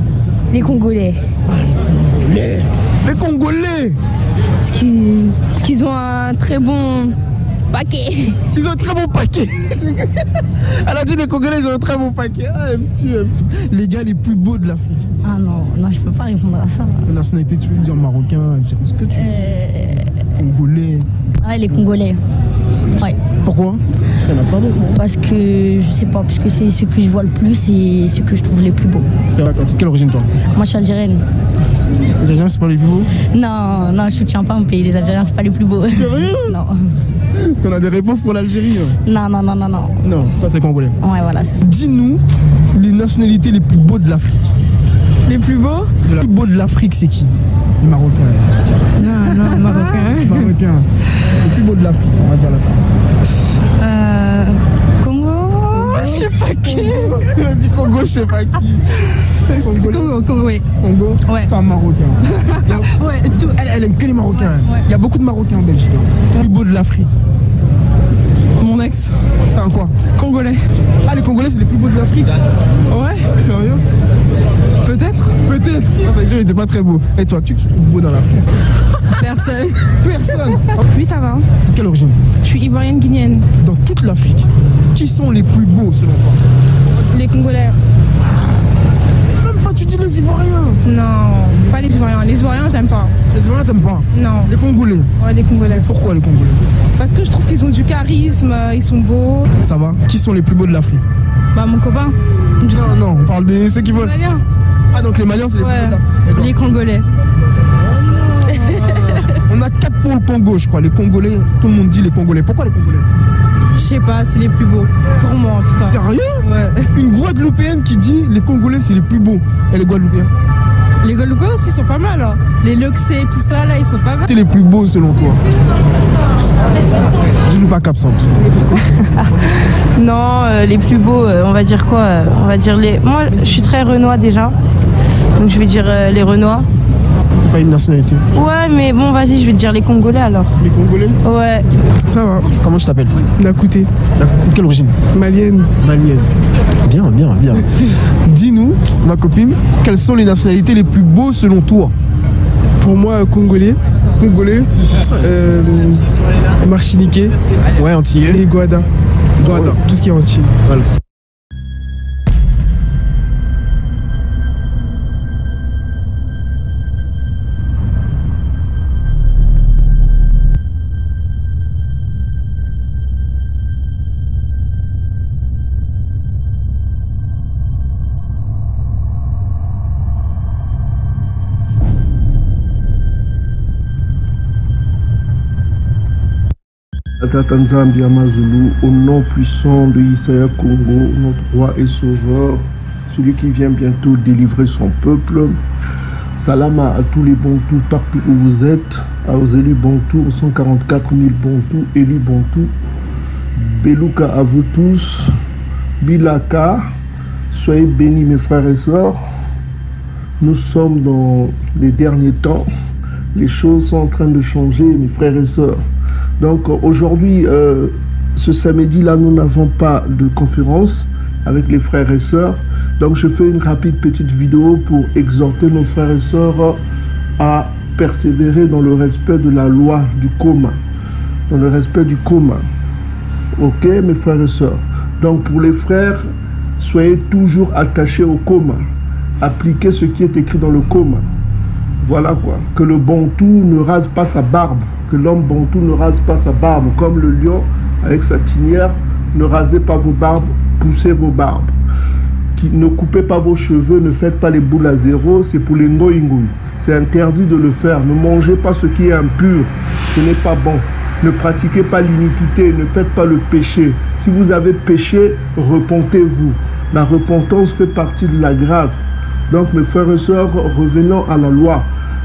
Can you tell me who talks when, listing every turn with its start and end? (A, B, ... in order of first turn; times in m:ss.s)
0:00.5-0:01.2 A
0:01.5-0:04.0 B
0:05.3-0:07.2 C
0:07.7-0:08.4 A
0:08.5-0:10.1 B
0:10.6-0:15.2 B
0:15.2-0:17.0 A
0:17.0-0:19.5 B
0:19.1-0:20.1 A
0:20.4-0:21.1 B
0:21.4-0:22.2 A
0:23.4-0:24.9 B
0:24.9-0:29.1 A
0:29.3-0:30.3 B
0:30.5-0:31.2 A
0:32.2-0:33.1 B
0:33.3-0:36.7 A
0:35.9-0:36.6 B
0:37.3-0:39.0 B
0:39.0-0:40.0 A
0:40.0-0:41.0 B
0:41.0-0:41.6 A
0:41.6-0:44.5 B
0:45.2-0:45.9 C
0:46.0-0:49.2 B
0:49.0-0:50.5 C
0:49.0-0:50.2 A
0:50.0-0:52.8 B
0:53.8-0:57.2 C
0:55.7-1:00.2 B
0:59.5-1:00.6 C
1:00.7-1:07.1 B
1:02.4-1:03.5 C
1:04.4-1:04.8 C
1:08.6-1:09.2 C
1:09.4-1:10.0 B
1:10.1-1:10.6 C
1:11.0-1:12.5 B
1:12.9-1:13.3 C
1:13.3-1:13.8 B
1:14.8-1:15.3 C
1:15.4-1:18.6 B
1:19.0-1:21.4 C
1:20.0-1:20.8 B
1:21.6-1:22.2 B
1:22.4-1:23.5 C
1:23.6-1:26.4 B
1:27.1-1:27.8 C
1:28.2-1:28.6 B
1:29.4-1:30.8 B
1:30.8-1:33.1 C
1:33.3-1:35.1 B
1:34.1-1:34.5 C
1:35.2-1:35.9 C
1:35.7-1:36.6 B
1:37.0-1:39.5 C
1:39.6-1:41.0 B
1:41.5-1:42.8 C
1:42.6-1:44.1 B
1:43.8-1:44.4 C
1:44.9-1:46.6 B
1:45.5-1:47.0 C
1:47.8-1:53.1 B
1:48.6-1:49.2 C
1:53.7-1:56.9 C
1:55.8-2:00.3 B
2:01.0-2:04.3 C
2:04.3-2:05.4 B
2:07.4-2:08.8 B
2:09.9-2:14.5 D
2:15.4-2:16.7 D
2:17.3-2:18.2 B
2:18.3-2:20.5 D
2:20.6-2:21.2 B
2:21.2-2:21.6 D
2:22.0-2:22.5 E
2:22.5-2:23.2 B
2:23.4-2:23.9 E
2:24.1-2:25.0 B
2:25.1-2:25.7 E
2:25.8-2:26.3 B
2:26.8-2:31.9 B
2:32.8-2:33.8 E
2:34.2-2:34.7 B
2:35.1-2:36.0 E
2:36.6-2:37.3 E
2:37.7-2:38.4 B
2:38.2-2:38.9 E
2:39.4-2:39.8 B
2:39.4-2:40.6 E
2:40.6-2:40.9 B
3:07.2-3:15.6 F
3:16.4-3:22.7 F
3:23.6-3:25.3 F
3:26.0-3:26.9 F
3:27.5-3:29.2 F
3:30.4-3:32.7 F
3:33.3-3:35.8 F
3:36.4-3:46.8 F
3:47.4-3:50.8 F
3:51.5-3:52.6 F
3:53.6-3:56.3 F
3:56.8-3:58.8 F
3:59.4-4:01.3 F
4:02.0-4:11.7 F
4:12.6-4:31.9 F